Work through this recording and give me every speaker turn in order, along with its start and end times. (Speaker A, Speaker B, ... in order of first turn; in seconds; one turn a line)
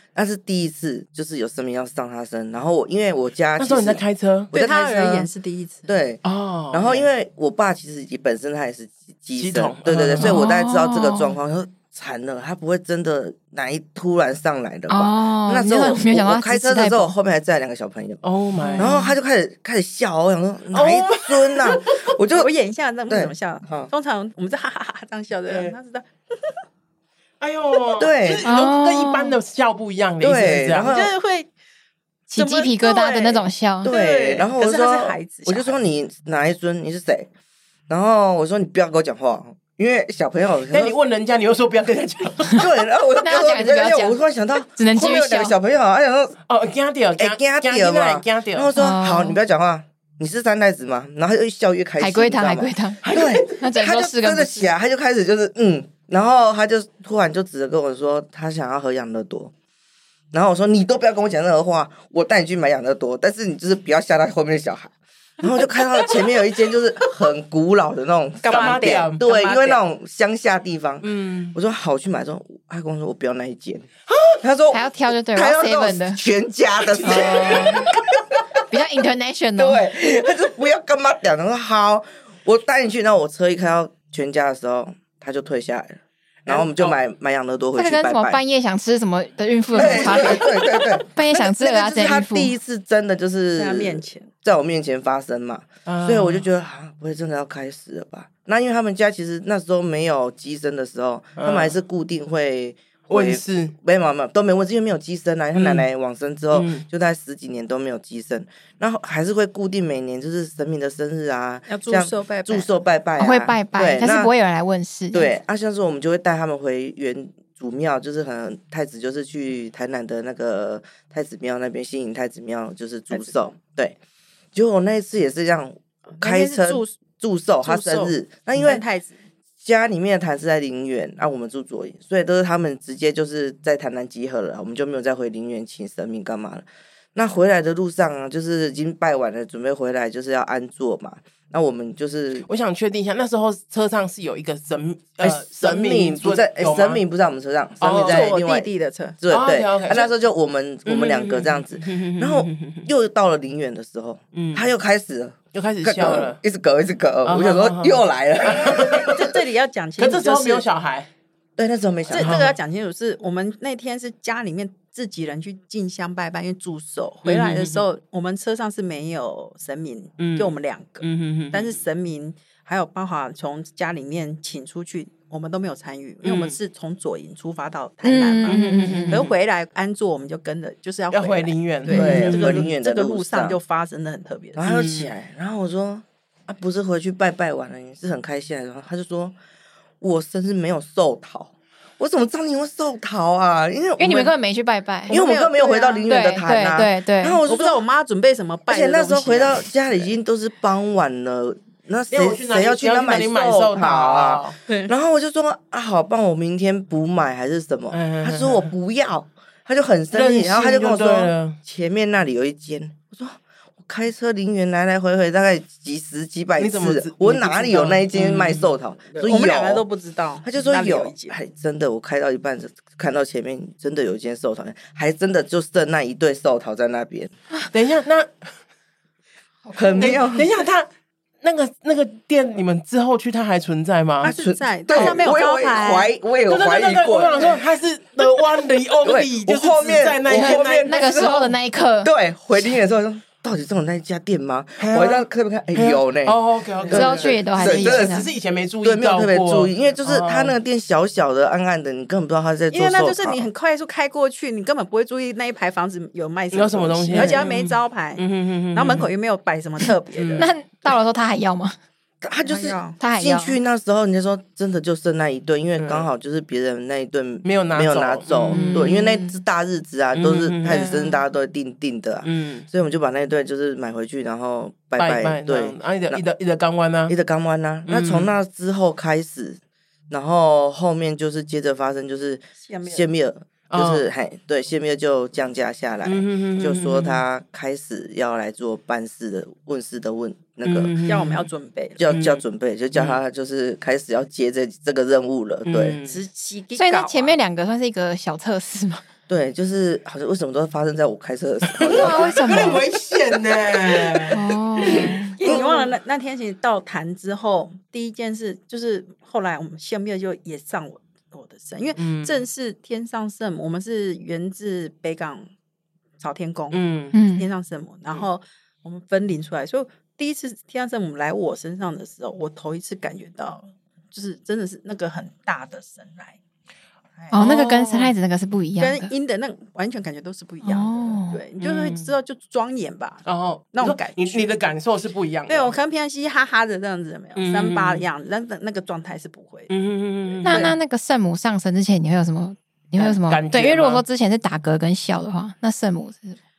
Speaker A: 0.1-5.3
Speaker B: 3.6-4.5
Speaker C: 4.5-5.9
Speaker A: 5.9-18.2
Speaker B: 6.2-7.1
Speaker B: 9.3-10.4
Speaker D: 10.2-11.3
Speaker D: 14.9-17.1
Speaker B: 18.2-18.9
Speaker C: 18.6-18.8
Speaker D: 18.8-19.1
Speaker A: 18.8-22.5
Speaker B: 20.7-22.1
Speaker C: 22.3-26.6
Speaker A: 23.1-23.9
Speaker B: 25.5-25.7
Speaker B: 27.4-30.9
Speaker A: 28.0-28.5
Speaker D: 28.4-29.4
Speaker A: 30.2-31.1
Speaker C: 30.8-31.5
Speaker C: 32.3-35.7
Speaker D: 32.3-33.9
Speaker A: 33.8-37.3
Speaker A: 37.9-40.9
Speaker B: 40.7-42.6
Speaker A: 42.5-46.4
Speaker D: 43.2-44.2
Speaker D: 44.8-45.5
Speaker B: 46.5-48.7
Speaker A: 47.1-59.5
Speaker D: 48.7-49.4
Speaker D: 52.0-54.7
Speaker B: 53.0-53.5
Speaker A: 60.3-73.9
Speaker C: 68.4-69.8
Speaker B: 68.5-69.2
Speaker B: 71.0-71.5
Speaker B: 74.1-74.4
Speaker A: 74.4-78.4
Speaker D: 74.7-76.2
Speaker D: 77.0-78.0
Speaker D: 78.6-79.8
Speaker A: 79.6-88.4
Speaker C: 86.5-86.9
Speaker D: 87.8-92.5
Speaker A: 89.7-114.3
Speaker C: 89.8-90.4
Speaker C: 93.5-94.3
Speaker B: 95.8-96.5
Speaker B: 101.4-101.8
Speaker B: 103.1-103.7
Speaker B: 105.5-105.8
Speaker B: 106.5-106.8
Speaker C: 111.7-112.7
Speaker D: 113.2-115.2
Speaker A: 115.1-124.0
Speaker A: 124.5-128.8
Speaker C: 126.2-127.0
Speaker C: 127.6-129.2
Speaker A: 129.6-142.5
Speaker B: 142.5-147.0
Speaker A: 145.2-159.3
Speaker B: 147.8-148.4
Speaker C: 147.8-149.2
Speaker B: 149.3-150.1
Speaker B: 150.8-152.8
Speaker B: 154.3-154.7
Speaker B: 155.5-156.4
Speaker B: 157.2-159.3
Speaker C: 159.0-160.7
Speaker B: 160.0-161.1
Speaker A: 161.6-162.5
Speaker B: 162.1-162.5
Speaker C: 162.1-184.6
Speaker B: 167.2-167.8
Speaker B: 170.2-171.8
Speaker B: 176.2-176.6
Speaker D: 178.0-179.3
Speaker B: 178.4-179.3
Speaker B: 181.1-182.7
Speaker D: 181.9-182.2
Speaker A: 181.9-183.6
Speaker A: 184.5-189.3
Speaker B: 184.6-185.1
Speaker A: 190.0-194.3
Speaker D: 194.0-195.1
Speaker C: 195.1-196.1
Speaker A: 195.1-197.8
Speaker D: 196.1-197.4
Speaker C: 197.4-199.7
Speaker A: 198.7-219.8
Speaker B: 202.1-204.6
Speaker B: 207.9-208.7
Speaker B: 210.1-211.6
Speaker B: 216.6-218.7
Speaker C: 219.2-221.3
Speaker A: 220.4-227.3
Speaker B: 227.7-228.5
Speaker A: 229.7-230.5
Speaker B: 229.9-230.9
Speaker B: 231.4-234.3
Speaker C: 234.2-236.1
Speaker A: 234.2-237.6
Speaker B: 234.9-235.2
Speaker B: 236.5-241.5
Speaker A: 239.0-248.2
Speaker D: 240.3-242.8
Speaker B: 244.8-245.2
Speaker B: 245.7-250.5
Speaker D: 246.9-248.3
Speaker A: 248.8-253.5
Speaker C: 252.7-260.5
Speaker B: 256.5-259.1
Speaker B: 260.1-260.5
Speaker D: 260.4-261.8
Speaker A: 262.2-276.2
Speaker C: 262.4-263.0
Speaker D: 263.0-263.6
Speaker B: 265.8-266.1
Speaker B: 267.4-268.9
Speaker D: 268.5-269.4
Speaker B: 270.1-271.0
Speaker B: 272.2-272.7
Speaker B: 275.0-277.1
Speaker A: 277.1-290.9
Speaker B: 277.9-278.3
Speaker C: 282.6-283.0
Speaker B: 283.7-284.1
Speaker B: 286.0-287.2
Speaker B: 290.6-291.5
Speaker C: 291.0-292.0
Speaker A: 292.0-296.0
Speaker B: 292.1-292.4
Speaker B: 292.9-293.2
Speaker B: 295.6-296.2
Speaker C: 296.1-297.3
Speaker D: 296.8-299.0
Speaker A: 299.3-302.8
Speaker B: 301.7-305.9
Speaker D: 301.8-302.8
Speaker A: 303.5-305.6
Speaker D: 304.3-305.4
Speaker C: 304.9-315.5
Speaker B: 312.0-312.4
Speaker C: 316.2-326.4
Speaker B: 316.7-317.1
Speaker D: 317.1-317.5
Speaker D: 327.3-329.1
Speaker B: 327.3-328.1
Speaker C: 328.8-334.5
Speaker D: 330.6-331.4
Speaker B: 331.6-332.1
Speaker B: 333.2-335.7
Speaker C: 335.5-339.7
Speaker B: 337.4-338.0
Speaker B: 339.7-340.7
Speaker D: 340.4-346.4
Speaker A: 340.5-340.7
Speaker B: 342.9-344.0